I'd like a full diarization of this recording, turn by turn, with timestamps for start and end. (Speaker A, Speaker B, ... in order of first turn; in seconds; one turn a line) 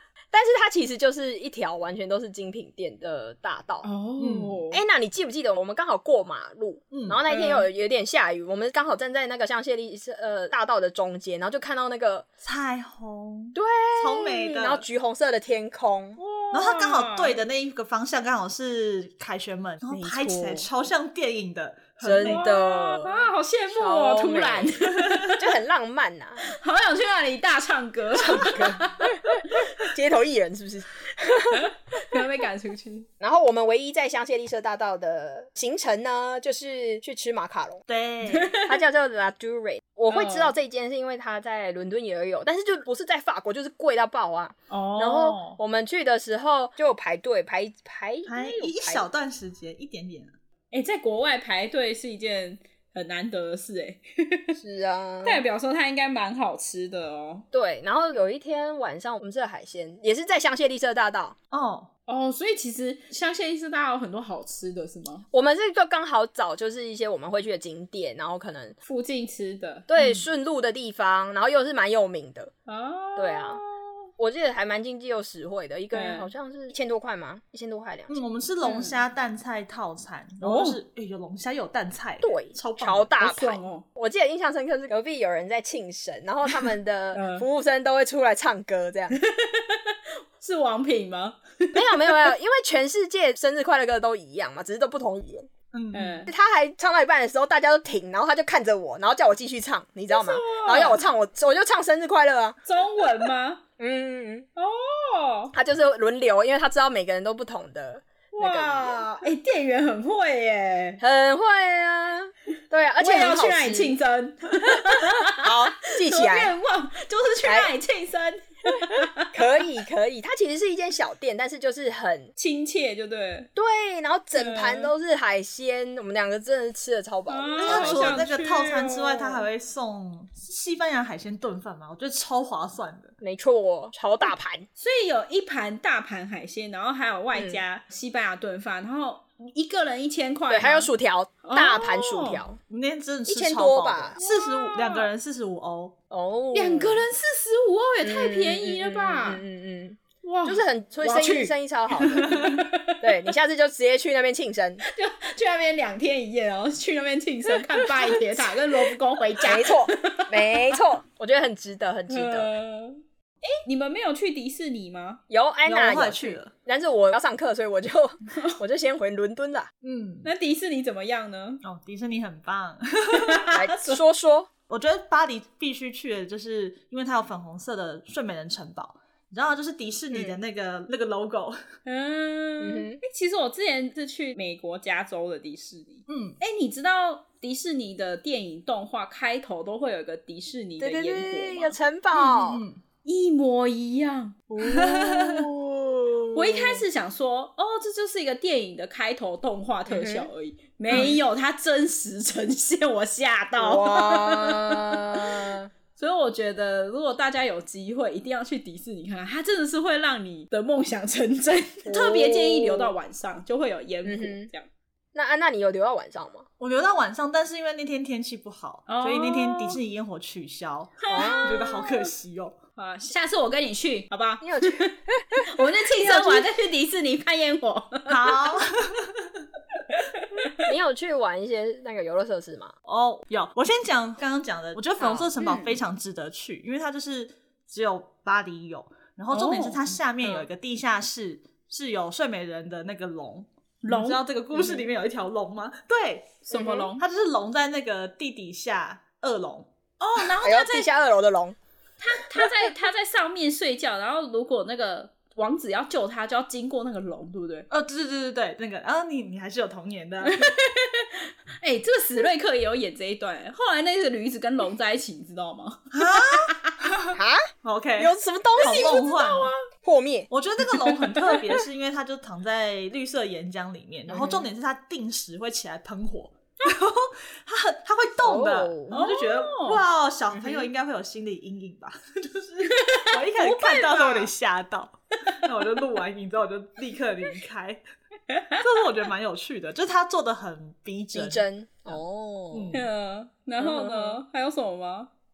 Speaker A: 0.3-3.9
Speaker B: 3.8-4.8
Speaker C: 4.2-4.6
Speaker A: 4.7-12.3
Speaker C: 6.9-7.2
Speaker B: 7.3-7.7
Speaker C: 12.4-14.8
Speaker A: 13.6-16.2
Speaker B: 16.2-17.4
Speaker C: 16.5-22.5
Speaker A: 19.9-20.7
Speaker A: 22.0-23.2
Speaker B: 22.2-25.4
Speaker A: 23.7-24.7
Speaker A: 25.3-26.4
Speaker B: 26.4-29.7
Speaker A: 28.2-31.7
Speaker B: 31.5-33.1
Speaker A: 33.2-37.8
Speaker C: 37.9-38.6
Speaker B: 38.3-38.8
Speaker A: 38.7-49.0
Speaker B: 40.1-40.5
Speaker B: 44.7-45.5
Speaker C: 48.3-50.3
Speaker B: 50.7-54.6
Speaker A: 54.6-55.4
Speaker B: 55.2-57.5
Speaker A: 57.5-61.3
Speaker C: 61.5-61.9
Speaker B: 62.1-65.3
Speaker A: 65.3-68.8
Speaker B: 68.9-69.9
Speaker A: 69.9-72.5
Speaker C: 70.0-70.2
Speaker B: 72.7-73.8
Speaker A: 73.2-73.6
Speaker A: 74.2-78.2
Speaker B: 75.9-76.3
Speaker C: 78.1-83.1
Speaker B: 78.6-79.0
Speaker B: 80.4-80.8
Speaker A: 82.2-89.2
Speaker B: 83.2-83.8
Speaker B: 87.1-87.5
Speaker B: 89.1-92.3
Speaker A: 91.7-95.5
Speaker C: 95.7-96.2
Speaker B: 95.9-96.3
Speaker A: 96.3-102.6
Speaker B: 100.1-101.0
Speaker B: 102.7-103.6
Speaker A: 103.8-104.5
Speaker B: 104.5-105.5
Speaker A: 105.5-109.0
Speaker B: 108.4-111.0
Speaker A: 111.0-114.0
Speaker B: 113.0-119.3
Speaker A: 114.7-116.5
Speaker A: 117.4-117.7
Speaker A: 119.3-122.3
Speaker B: 122.4-123.5
Speaker A: 123.5-128.2
Speaker B: 124.3-124.9
Speaker B: 127.3-129.4
Speaker C: 127.6-133.1
Speaker A: 133.2-134.7
Speaker B: 134.8-140.9
Speaker A: 137.3-137.6
Speaker A: 140.5-142.6
Speaker B: 141.4-142.4
Speaker C: 142.7-145.9
Speaker A: 143.3-144.2
Speaker B: 144.2-145.1
Speaker A: 146.1-147.0
Speaker B: 146.5-149.4
Speaker A: 148.0-152.5
Speaker B: 150.2-153.0
Speaker C: 152.1-152.6
Speaker A: 153.0-154.8
Speaker B: 154.8-160.8
Speaker A: 157.9-158.3
Speaker A: 159.4-162.5
Speaker B: 162.1-165.2
Speaker A: 165.3-169.7
Speaker C: 165.7-166.5
Speaker B: 168.3-168.6
Speaker C: 169.8-170.3
Speaker B: 170.2-171.6
Speaker C: 171.6-173.4
Speaker B: 173.1-174.0
Speaker A: 173.5-174.5
Speaker C: 174.7-181.6
Speaker B: 181.9-192.2
Speaker A: 182.6-183.0
Speaker C: 186.1-186.4
Speaker A: 190.8-192.6
Speaker C: 192.3-192.8
Speaker B: 193.1-194.4
Speaker A: 194.5-196.8
Speaker C: 194.6-195.5
Speaker B: 196.3-214.7
Speaker A: 199.9-200.3
Speaker C: 200.9-201.2
Speaker A: 203.6-205.7
Speaker A: 211.8-212.9
Speaker A: 214.1-214.5
Speaker A: 215.1-216.4
Speaker C: 216.6-222.6
Speaker B: 218.9-219.8
Speaker B: 221.0-221.9
Speaker A: 221.1-221.8
Speaker B: 222.8-228.5
Speaker A: 224.4-226.5
Speaker C: 228.1-229.3
Speaker B: 229.9-230.6
Speaker A: 230.7-232.7
Speaker C: 232.9-249.7
Speaker B: 235.0-235.8
Speaker B: 239.3-240.4
Speaker B: 243.8-244.8
Speaker B: 246.5-247.0
Speaker A: 246.5-246.9
Speaker B: 250.0-250.9
Speaker A: 250.4-251.6
Speaker B: 252.0-257.7
Speaker C: 257.7-260.5
Speaker B: 260.2-266.7
Speaker C: 265.9-269.5
Speaker A: 267.1-269.0
Speaker B: 268.6-269.6
Speaker A: 269.8-270.3
Speaker C: 270.3-287.8
Speaker B: 270.8-271.4
Speaker A: 274.1-274.5
Speaker A: 278.2-278.9
Speaker B: 278.9-279.8
Speaker A: 280.3-280.7
Speaker B: 282.7-284.3
Speaker B: 288.3-288.6
Speaker C: 288.6-292.0
Speaker A: 291.1-292.8
Speaker C: 292.5-292.8
Speaker B: 292.7-295.1
Speaker A: 293.6-294.2